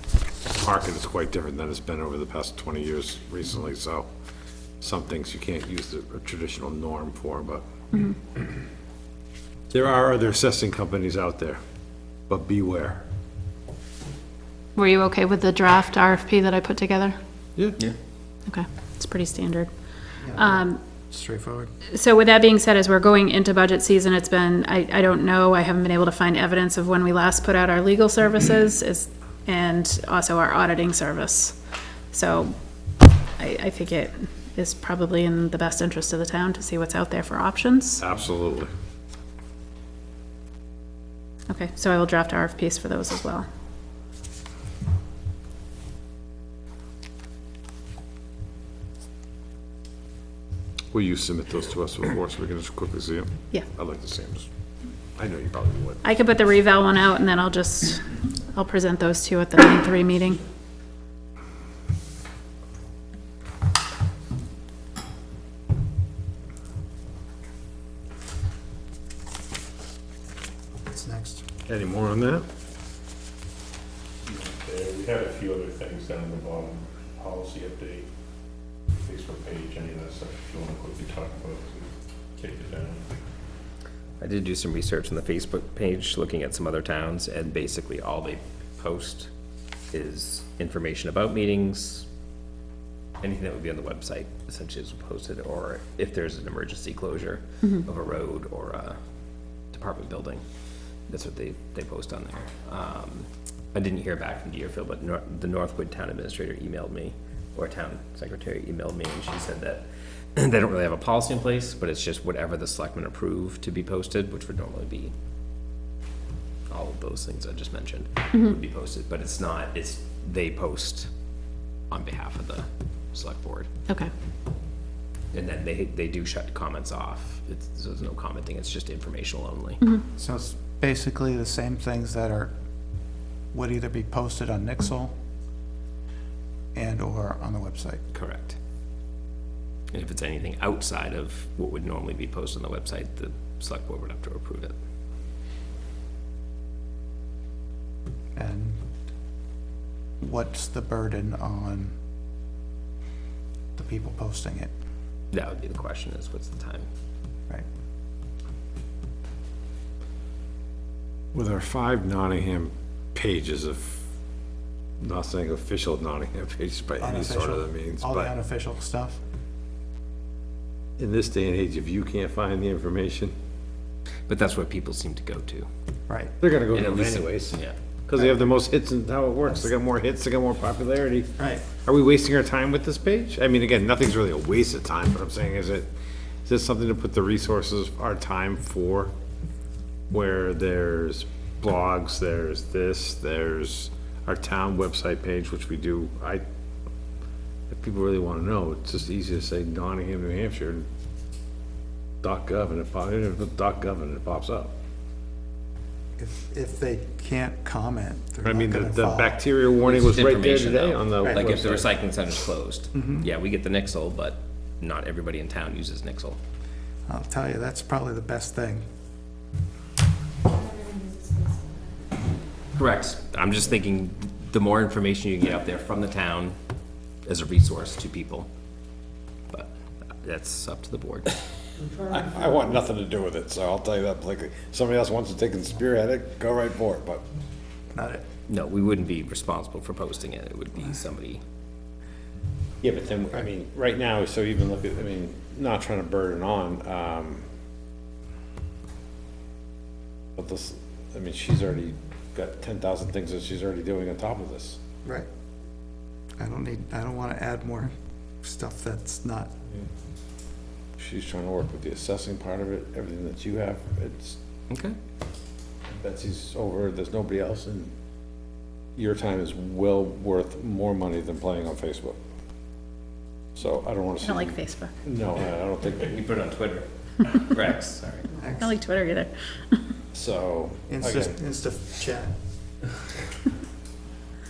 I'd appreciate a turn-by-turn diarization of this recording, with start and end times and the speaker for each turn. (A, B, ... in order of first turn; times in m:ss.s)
0:00.5-0:04.0 A
0:04.8-0:07.6 A
0:09.7-0:11.6 A
0:12.3-0:13.0 A
0:14.8-0:17.2 B
0:18.4-0:19.7 B
0:20.2-0:21.7 C
0:20.3-0:20.8 B
0:21.8-0:31.6 B
0:32.1-0:32.5 B
0:33.2-0:38.0 B
0:38.0-0:38.7 A
0:41.5-0:43.4 B
0:50.9-0:54.5 A
0:55.2-0:56.0 A
0:56.0-1:00.4 B
1:10.9-1:11.4 C
1:11.6-1:12.4 A
1:14.2-1:18.0 D
1:18.9-1:23.1 D
1:24.2-1:29.3 E
1:29.9-1:32.0 E
1:33.2-1:39.0 E
1:39.7-1:40.4 E
1:41.1-1:55.1 E
1:56.7-2:01.1 E
2:01.9-2:03.7 E
2:05.3-2:09.8 E
2:10.2-2:12.5 C
2:13.5-2:15.1 C
2:16.7-2:18.0 C
2:18.1-2:18.6 E
2:19.9-2:24.7 E
2:28.4-2:28.8 C
2:30.2-2:31.9 C
2:33.8-2:34.7 C
2:35.3-2:36.9 E
2:41.3-2:44.0 A
2:45.0-2:48.3 A
2:47.0-2:49.2 C
2:51.0-2:53.3 A
2:54.3-2:55.7 E
2:56.1-2:56.3 C
2:56.4-3:05.9 A
2:56.7-2:57.7 E
3:01.4-3:01.7 C
3:06.4-3:09.1 A
3:10.1-3:16.4 A
3:17.7-3:20.9 A
3:22.2-3:24.7 A
3:26.2-3:29.4 C
3:28.4-3:31.9 A
3:29.8-3:36.4 E
3:31.2-3:31.4 C
3:32.9-3:33.3 C
3:37.0-3:38.8 C
3:42.7-3:46.6 E
3:47.2-3:48.5 E
3:49.5-3:51.3 E
3:51.9-3:57.2 A
3:57.9-3:58.2 C
3:58.5-4:01.4 E
4:02.8-4:07.4 A
4:10.4-4:14.8 A
4:16.4-4:19.5 C
4:21.0-4:24.4 A
4:24.7-4:25.0 E
4:25.9-4:27.9 A
4:29.0-4:32.2 A
4:33.6-4:36.2 A
4:34.2-4:34.9 B
4:36.0-4:38.3 E
4:38.4-4:38.7 C
4:38.6-4:39.8 B
4:40.1-4:41.4 A
4:40.9-4:42.3 C